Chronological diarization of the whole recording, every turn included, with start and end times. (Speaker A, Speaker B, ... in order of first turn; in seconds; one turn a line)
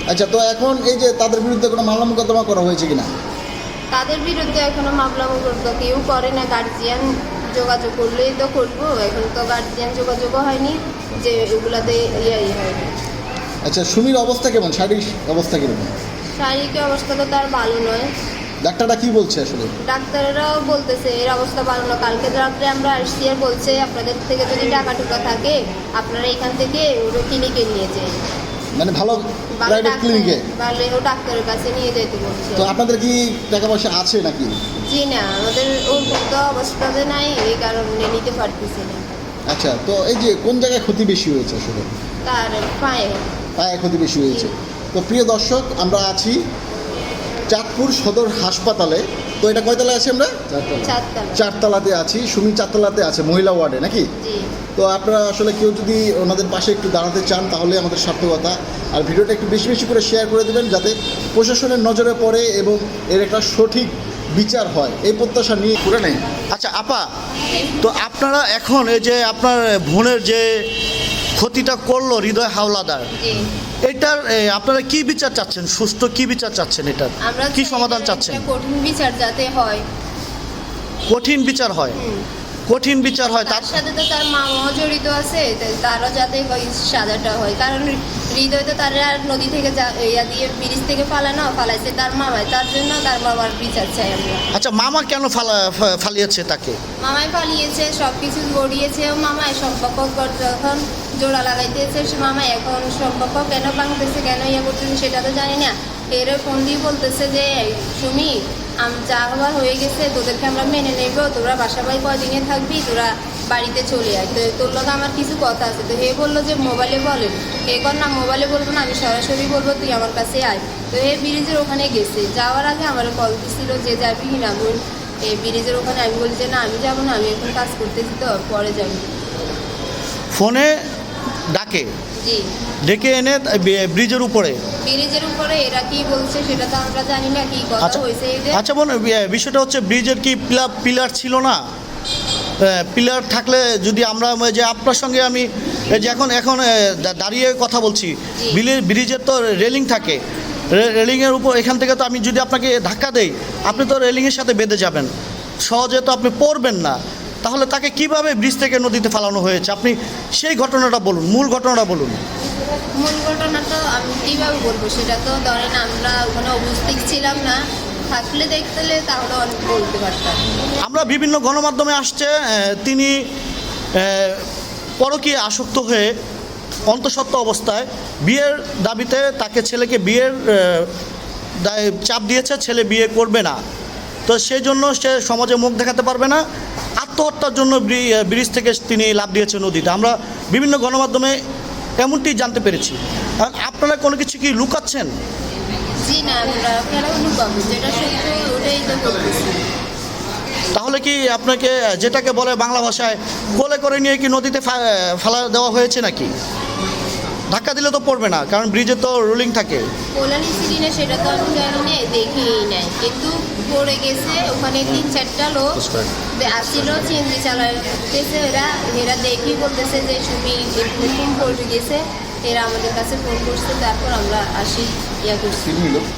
Speaker A: 0.1-3.1
Speaker B: 3.9-12.9
Speaker A: 13.7-15.9
Speaker B: 16.4-18.1
Speaker A: 18.6-19.7
Speaker B: 19.8-28.2
Speaker A: 28.8-30.4
Speaker B: 29.6-32.7
Speaker A: 32.6-34.6
Speaker B: 34.9-39.1
Speaker A: 39.5-41.9
Speaker B: 42.2-43.3
Speaker A: 43.6-46.4
Speaker A: 47.5-54.1
Speaker B: 50.8-51.5
Speaker B: 54.2-54.5
Speaker A: 54.8-66.2
Speaker C: 66.5-67.1
Speaker C: 67.8-70.6
Speaker C: 71.4-73.1
Speaker B: 73.2-73.5
Speaker C: 73.8-78.4
Speaker B: 77.2-79.8
Speaker C: 81.1-82.0
Speaker B: 81.9-82.2
Speaker C: 82.7-83.7
Speaker B: 83.2-94.5
Speaker C: 94.5-96.8
Speaker B: 97.0-129.2
Speaker C: 130.3-130.7
Speaker C: 131.5-131.9
Speaker C: 132.9-134.6
Speaker B: 134.8-138.6
Speaker C: 138.5-141.6
Speaker C: 142.6-150.2
Speaker C: 150.7-155.1
Speaker C: 155.7-162.2
Speaker B: 163.0-170.4
Speaker C: 170.8-173.2
Speaker C: 173.9-174.4
Speaker C: 175.0-176.1
Speaker C: 176.9-180.9
Speaker C: 181.6-183.6
Speaker C: 184.3-186.4
Speaker C: 187.0-191.4
Speaker C: 192.0-195.1
Speaker B: 196.0-199.6
Speaker C: 200.7-206.3
Speaker C: 207.5-209.9
Speaker B: 210.2-225.7
Speaker A: 225.7-226.1